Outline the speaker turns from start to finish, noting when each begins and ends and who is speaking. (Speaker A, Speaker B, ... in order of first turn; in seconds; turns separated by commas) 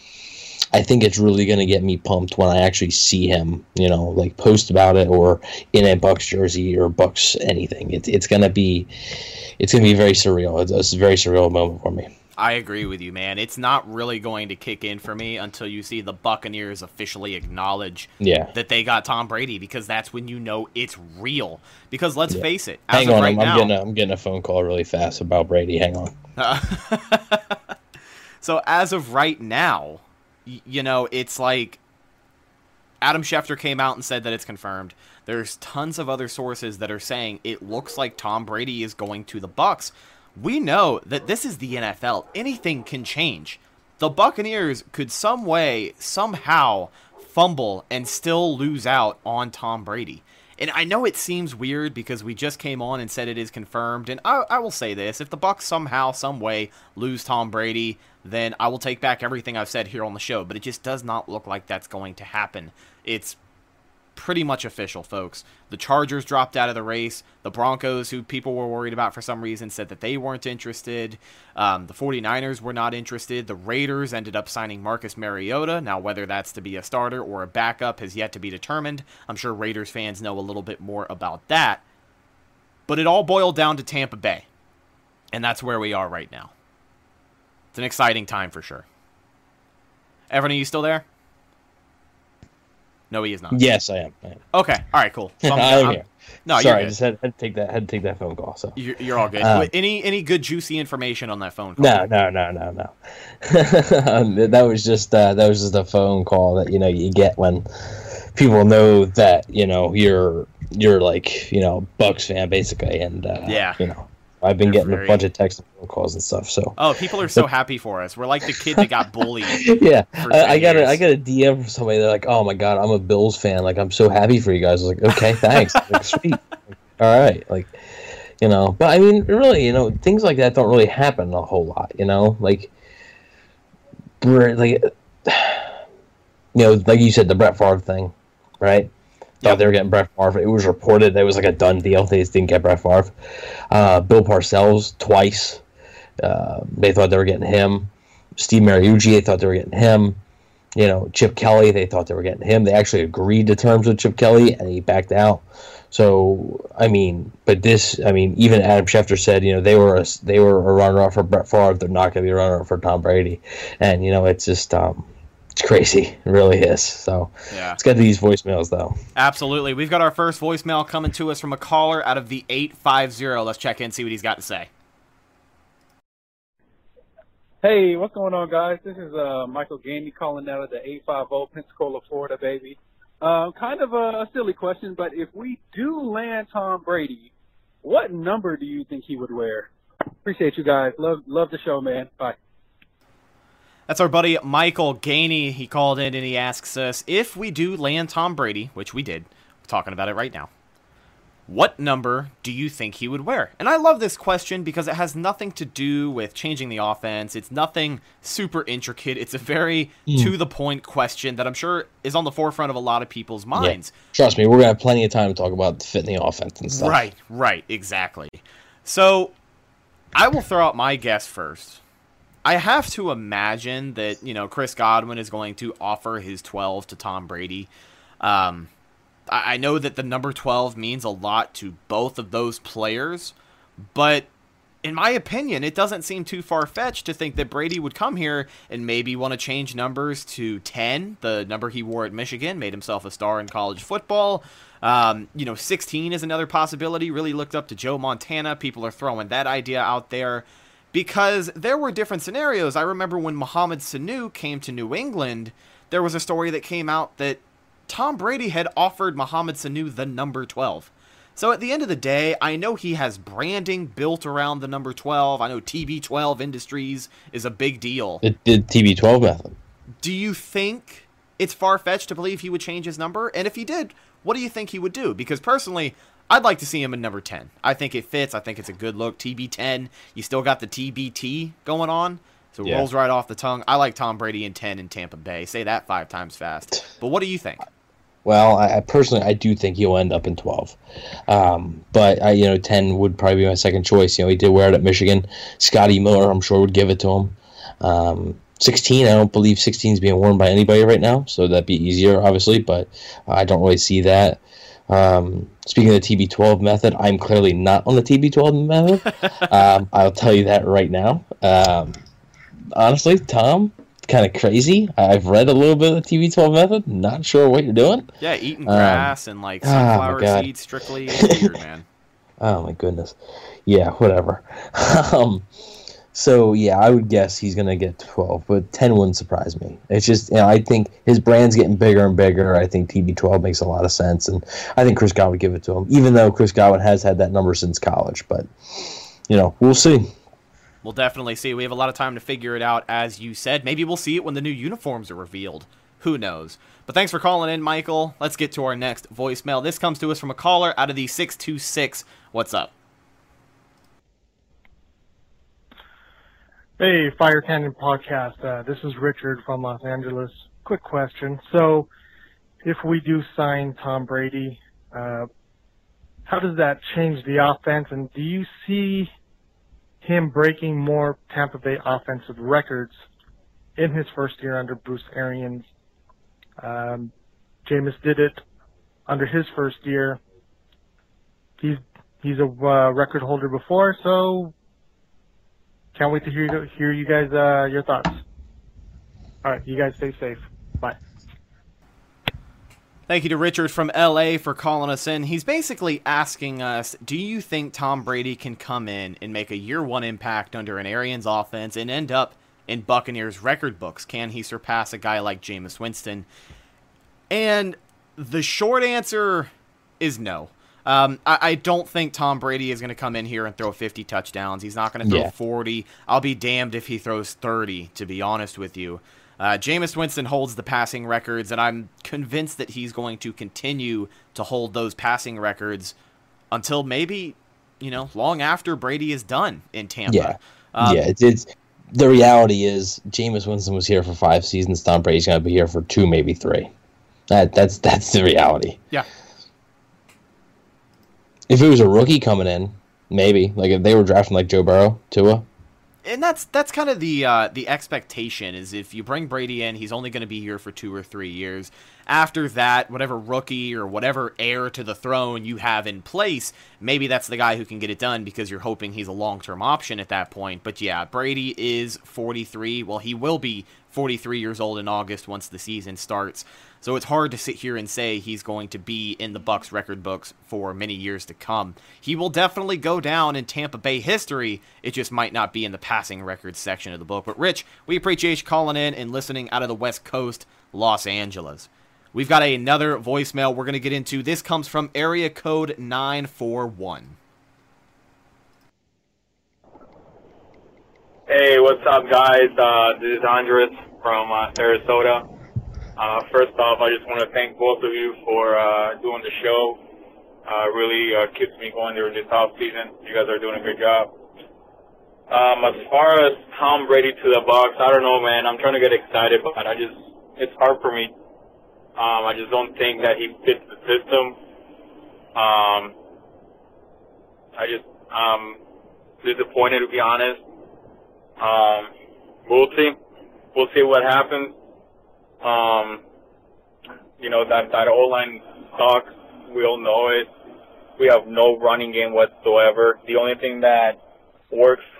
Speaker A: 0.7-8.9, Speaker A: 9.6-12.1, Speaker B: 12.4-23.7, Speaker A: 18.2-18.5, Speaker A: 22.3-26.1, Speaker B: 26.4-27.6, Speaker B: 28.4-31.8, Speaker B: 33.0-63.4, Speaker B: 64.2-81.8, Speaker B: 82.9-84.5, Speaker B: 85.3-86.5, Speaker B: 87.7-88.8, Speaker B: 90.3-91.0, Speaker B: 93.1-93.6, Speaker A: 93.5-94.4, Speaker B: 94.5-97.0, Speaker A: 95.4-98.8, Speaker B: 98.8-102.0, Speaker A: 99.4-99.7, Speaker A: 101.8-116.8, Speaker B: 113.5-113.8, Speaker B: 114.6-115.2, Speaker B: 116.8-119.7, Speaker A: 119.5-127.8, Speaker B: 120.2-121.0, Speaker B: 125.5-126.0, Speaker A: 128.4-132.7, Speaker A: 134.2-135.7, Speaker A: 136.5-138.9, Speaker A: 139.4-143.1, Speaker A: 143.7-145.6, Speaker A: 146.2-150.2, Speaker A: 150.8-169.0, Speaker B: 167.5-167.8, Speaker B: 169.2-174.7, Speaker C: 177.6-187.3, Speaker C: 187.8-189.7, Speaker C: 190.2-192.4, Speaker B: 193.9-200.5, Speaker B: 201.5-213.9, Speaker A: 210.1-210.3, Speaker A: 213.5-217.0, Speaker B: 216.7-219.3, Speaker B: 220.2-221.8, Speaker B: 222.4-227.7, Speaker B: 228.2-228.7, Speaker B: 229.3-233.3, Speaker B: 233.9-234.3, Speaker B: 234.8-268.2, Speaker A: 268.2-269.6, Speaker B: 270.0-287.7, Speaker A: 288.2-290.8, Speaker A: 291.3-312.0, Speaker A: 312.7-318.1, Speaker B: 318.2-321.9, Speaker A: 318.7-320.5, Speaker A: 321.1-321.5, Speaker A: 322.4-325.5, Speaker A: 326.1-340.1, Speaker B: 340.8-352.7, Speaker D: 356.8-361.9, Speaker D: 362.6-365.3, Speaker D: 366.3-369.1, Speaker D: 370.0-372.9, Speaker D: 373.8-375.6, Speaker D: 376.6-377.1, Speaker D: 377.7-378.4, Speaker D: 379.1-380.2, Speaker D: 381.6-384.5, Speaker D: 385.9-388.2, Speaker D: 389.4-391.0, Speaker B: 393.1-406.3, Speaker B: 407.3-425.9, Speaker A: 415.0-415.3, Speaker B: 426.5-431.0, Speaker A: 430.1-436.7, Speaker A: 437.3-438.8, Speaker A: 441.5-445.4, Speaker B: 446.0-487.2, Speaker E: 491.3-495.2, Speaker E: 496.0-499.8, Speaker E: 500.5-504.1, Speaker E: 505.3-511.1, Speaker E: 512.0-514.4, Speaker E: 515.3-515.9, Speaker E: 517.6-518.6, Speaker E: 519.2-520.4, Speaker E: 521.4-521.9, Speaker E: 522.5-523.0, Speaker E: 523.5-524.5, Speaker E: 525.4-526.0, Speaker E: 527.2-530.3, Speaker E: 531.0-534.0, Speaker E: 534.5-534.8